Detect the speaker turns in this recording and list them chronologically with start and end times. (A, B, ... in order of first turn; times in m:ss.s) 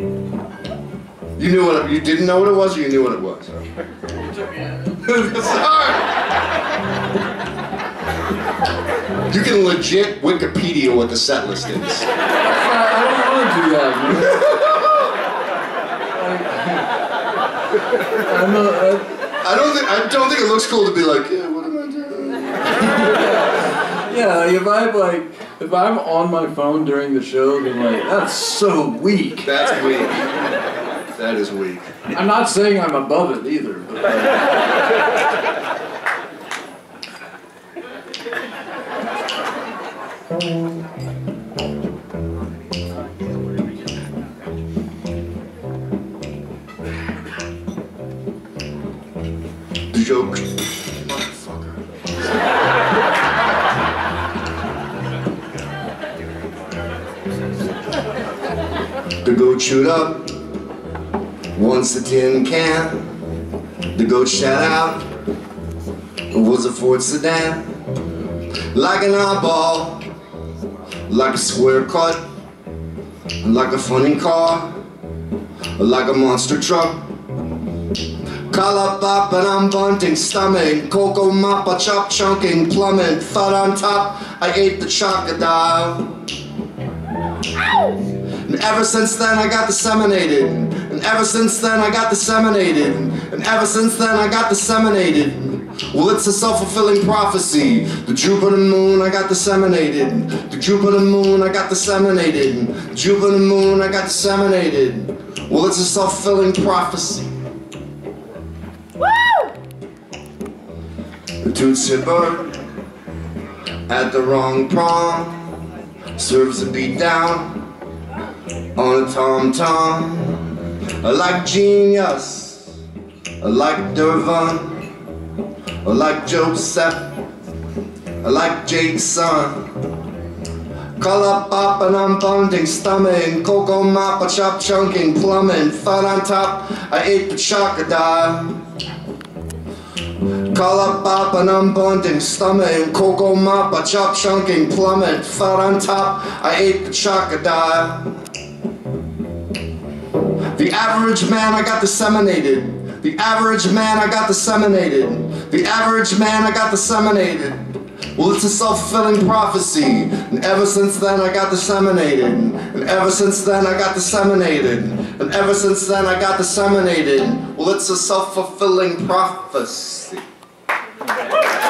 0:01.4-0:03.6 A
0:04.4-0:05.2 B
0:05.1-0:06.1 A
0:09.3-0:12.1 A
0:12.4-0:14.9 B
0:16.1-0:16.9 B
0:18.1-0:19.1 B
0:19.4-0:23.0 A
0:22.9-0:29.5 B
0:29.4-0:30.5 A
0:31.1-0:32.0 A
0:32.1-0:34.5 B
0:49.9-0:51.7 A
0:59.2-1:00.4 A
1:01.5-1:03.1 A
1:03.9-1:05.0 A
1:06.3-1:07.6 A
1:08.7-1:10.0 A
1:11.1-1:12.2 A
1:13.4-1:14.8 A
1:15.8-1:17.0 A
1:18.5-1:26.2 A
1:28.4-1:47.3 A
1:51.4-1:52.6 A
1:53.9-1:55.6 A
1:56.2-1:57.7 A
1:58.7-2:02.7 A
2:03.4-2:04.9 A
2:05.8-2:07.1 A
2:08.2-2:09.7 A
2:11.0-2:18.6 A
2:20.4-2:28.2 A
2:30.5-2:37.6 A
2:38.1-2:50.2 A